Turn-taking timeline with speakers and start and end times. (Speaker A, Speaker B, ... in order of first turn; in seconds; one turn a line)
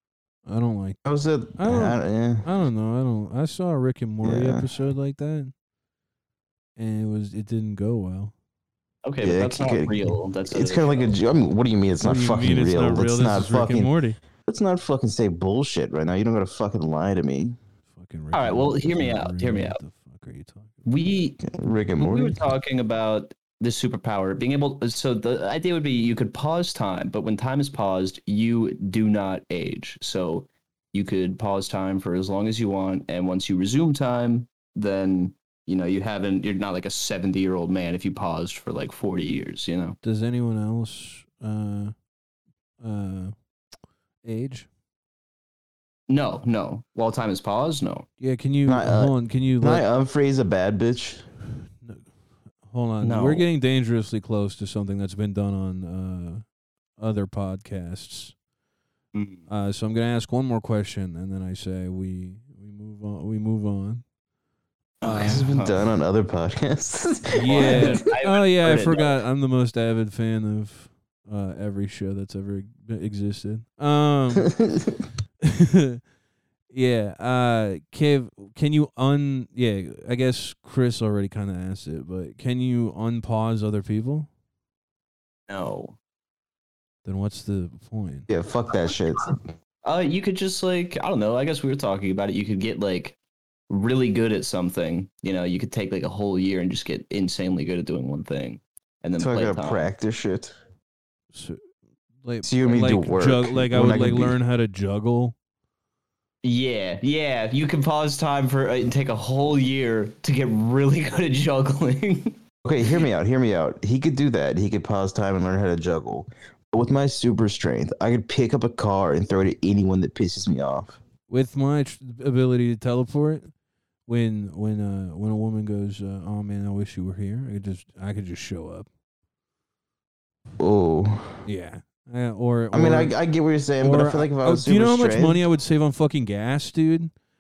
Speaker A: 0.5-1.0
Speaker B: 1.0-2.5
Speaker A: 1.6-5.5
Speaker B: 4.2-4.7
Speaker A: 6.8-8.3
Speaker C: 9.0-11.1
Speaker B: 9.2-17.6
Speaker A: 12.0-14.2
Speaker A: 17.9-20.8
Speaker C: 18.3-19.8
Speaker C: 20.8-40.0
Speaker B: 21.5-22.4
Speaker A: 40.0-41.9
Speaker A: 42.8-43.3
Speaker A: 44.2-44.7
Speaker C: 46.1-48.0
Speaker A: 48.2-49.8
Speaker B: 48.6-51.2
Speaker A: 51.8-52.1
Speaker A: 52.6-56.4
Speaker C: 53.0-53.4
Speaker A: 57.0-58.3
Speaker C: 59.1-59.5
Speaker A: 59.5-64.0
Speaker C: 65.0-65.8
Speaker A: 65.0-65.5
Speaker B: 65.1-68.0
Speaker A: 67.3-74.5
Speaker C: 67.5-69.2
Speaker B: 74.4-75.0
Speaker A: 75.4-76.0
Speaker A: 76.7-84.3
Speaker C: 85.5-86.0
Speaker A: 87.0-88.3
Speaker B: 88.3-89.4
Speaker C: 89.8-93.2
Speaker C: 93.7-99.8
Speaker B: 99.2-100.5
Speaker A: 101.3-101.6
Speaker A: 102.2-105.3
Speaker B: 102.4-104.4
Speaker C: 106.4-112.4
Speaker B: 112.6-121.0
Speaker A: 121.3-123.5
Speaker A: 124.0-128.9
Speaker B: 130.6-131.4
Speaker A: 131.4-133.1
Speaker B: 132.7-135.4
Speaker A: 133.8-137.1